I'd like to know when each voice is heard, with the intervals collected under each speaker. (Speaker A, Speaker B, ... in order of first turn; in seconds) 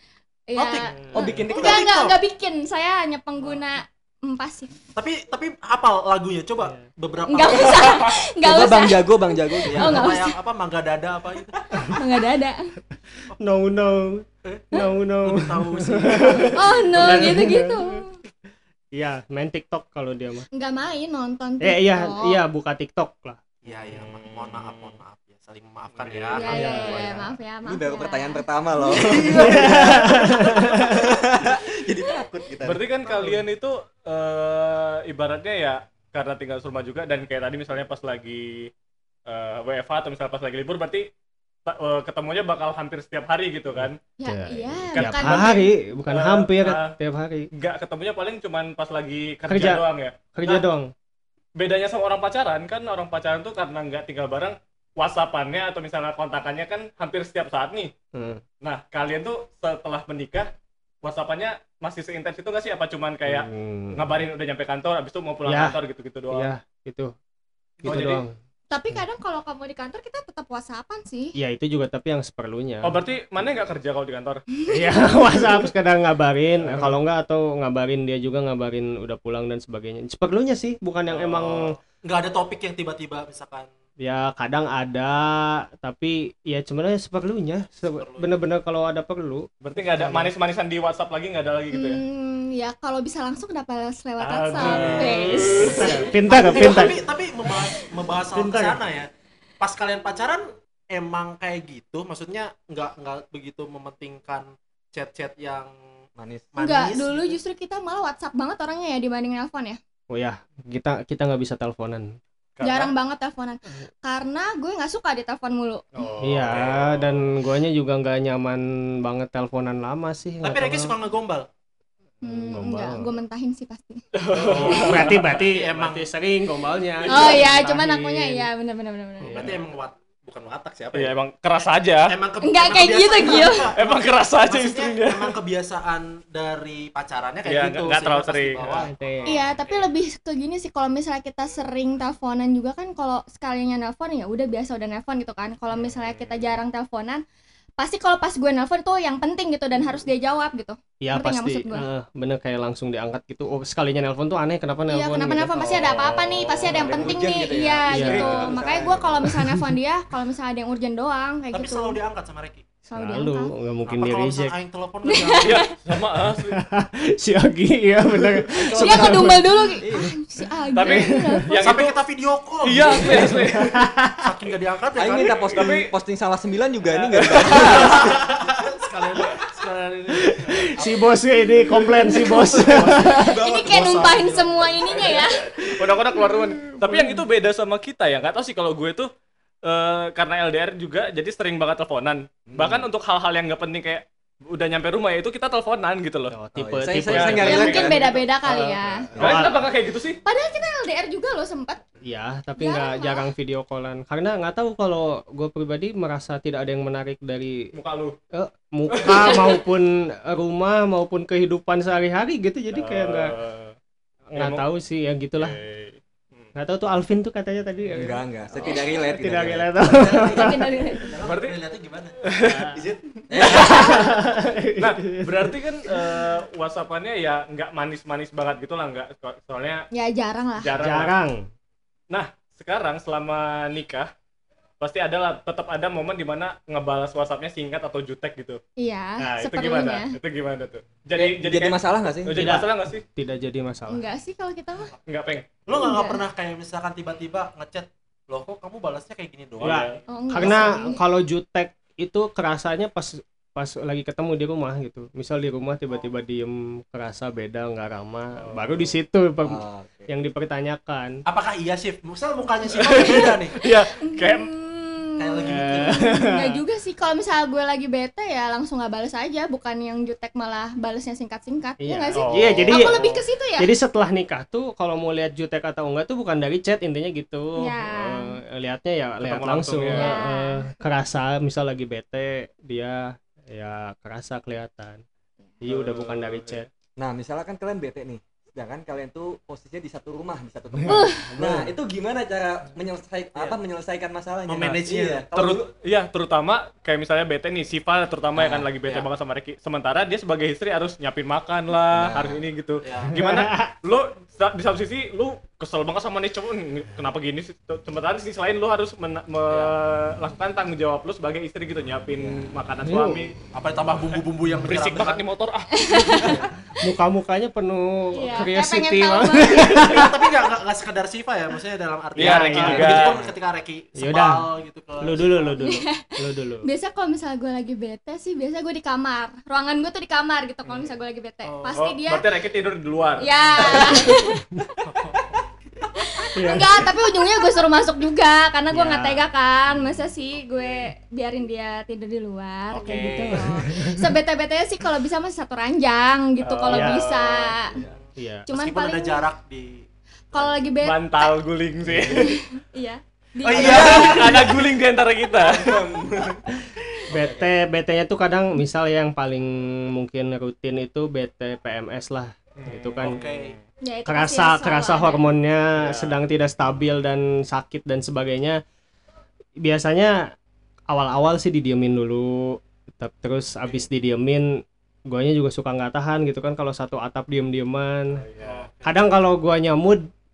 Speaker A: 0.5-4.7, 7.3-10.3, 11.9-12.6, 16.5-18.2, 20.5-22.4, 26.3-29.5, 30.7-30.9, 44.2-45.7, 68.7-71.3, 91.7-96.0, 96.5-96.9, 97.6-97.9, 106.6-109.8, 112.6-116.0, 122.2-124.0, 127.1-129.4, 132.4-133.7, 139.3-147.2, 147.8-151.8, 154.9-162.0, 162.9-163.5, 165.1-165.7, 168.7-171.6, 182.2-185.4, 197.4-199.1, 200.2-201.8, 202.6-203.3, 220.1-221.1, 229.9-230.7, 238.8-240.1, 243.9-244.9, 245.7-246.2, 250.1-251.0, 263.6-273.7, 277.6-278.4, 279.9-280.6, 290.9-291.3, 315.8-316.3, 318.1-319.8, 325.6-332.3, 333.2-334.7, 335.9-347.8, 348.5-349.2, 350.3-351.4, 352.1-354.3, 363.8-365.2
Speaker B: 0.6-2.2, 4.9-8.0, 9.6-12.0, 14.4-17.3, 23.6-27.0, 28.9-30.0, 82.0-83.7, 87.9-88.3, 94.5-99.1, 99.6-105.7, 106.5-107.3, 120.4-121.5, 124.3-126.1, 129.3-131.1, 132.1-139.8, 161.5-162.7, 163.8-165.6, 171.6-175.5, 177.6-181.1, 181.7-185.2, 219.8-222.2, 245.7-250.6, 261.2-263.6, 265.2-266.1, 294.5-295.3, 302.8-303.2, 313.5-315.2, 319.8-325.6, 331.4-331.8, 334.8-335.9, 342.7-344.0, 347.8-350.6, 353.4-354.7, 363.0-363.6, 378.4-379.1
Speaker C: 1.0-1.3, 13.4-18.0, 18.9-20.5, 21.6-23.4, 26.5-27.3, 29.4-31.1, 44.2-47.5, 49.5-49.8, 50.3-50.9, 58.1-58.4, 63.2-64.0, 65.4-65.7, 66.3-67.1, 67.8-68.3, 71.3-73.0, 74.7-81.7, 84.0-90.3, 94.8-96.9, 98.3-98.8, 110.1-112.2, 116.2-120.9, 122.2-123.1, 124.4-128.4, 129.2-129.5, 138.7-139.4, 151.0-155.7, 157.9-158.6, 159.2-159.7, 162.9-164.5, 166.5-169.7, 170.7-171.5, 173.1-174.3, 180.2-183.3, 186.8-187.2, 196.3-197.7, 199.2-199.6, 202.0-207.7, 208.3-213.3, 214.3-215.6, 216.5-218.2, 219.1-220.7, 222.4-222.8, 223.4-226.1, 230.8-231.4, 242.3-244.0, 249.6-261.1, 265.4-266.3, 271.8-285.0, 285.6-286.7, 290.8-291.7, 303.1-303.7, 312.9-313.3, 316.4-320.3, 322.2-323.1, 324.0-324.4, 325.0-326.6, 336.4-336.9, 338.7-339.3, 346.7-347.0, 348.2-348.4, 357.1-363.2, 364.1-368.6, 369.6-370.2, 370.9-374.5, 375.1-378.2, 378.8-380.1
Speaker D: 1.2-1.8, 8.4-10.1, 27.6-33.5, 106.2-106.5, 156.7-159.3, 169.8-170.1, 175.0-178.4, 182.6-184.2, 192.5-192.8, 196.6-198.3, 199.1-199.5, 217.9-219.8, 223.3-224.0, 241.2-242.6, 259.4-260.1, 287.0-295.6, 298.4-298.7, 301.9-302.4, 312.2-312.5, 316.2-316.5, 323.0-323.3, 353.5-354.4, 355.4-356.5, 357.1-357.5
Speaker E: 23.9-25.0, 25.9-26.6, 32.6-38.7, 39.3-41.1, 41.6-44.0, 45.0-47.0, 47.5-50.6, 51.6-57.9, 58.6-60.5, 61.0-66.5, 67.8-68.2, 72.8-74.4, 76.6-77.0, 81.1-81.6, 89.6-92.0, 94.2-96.1, 112.5-112.9, 116.0-117.3, 124.1-125.4, 127.0-127.5, 130.9-132.1, 133.8-135.3, 137.4-138.9, 145.8-146.3, 155.6-157.2, 165.4-166.6, 170.7-172.0, 172.6-173.7, 175.4-175.9, 177.1-178.0, 182.2-183.0, 185.6-189.1, 189.6-196.3, 196.9-200.2, 207.7-208.2, 208.9-209.5, 212.7-213.7, 214.4-214.7, 215.4-216.5, 221.2-221.6, 222.2-222.8, 223.4-223.9, 224.8-229.8, 230.6-231.1, 232.1-234.1, 234.8-238.6, 239.2-243.0, 245.1-245.5, 249.6-250.0, 258.4-258.8, 262.8-264.5, 272.1-272.9, 279.2-280.2, 285.7-286.6, 295.3-313.3, 314.1-316.3, 322.1-323.2, 331.8-334.1, 339.8-340.4, 346.4-347.6, 350.8-352.4, 353.5-355.9, 362.6-363.6, 365.8-366.1, 378.2-378.6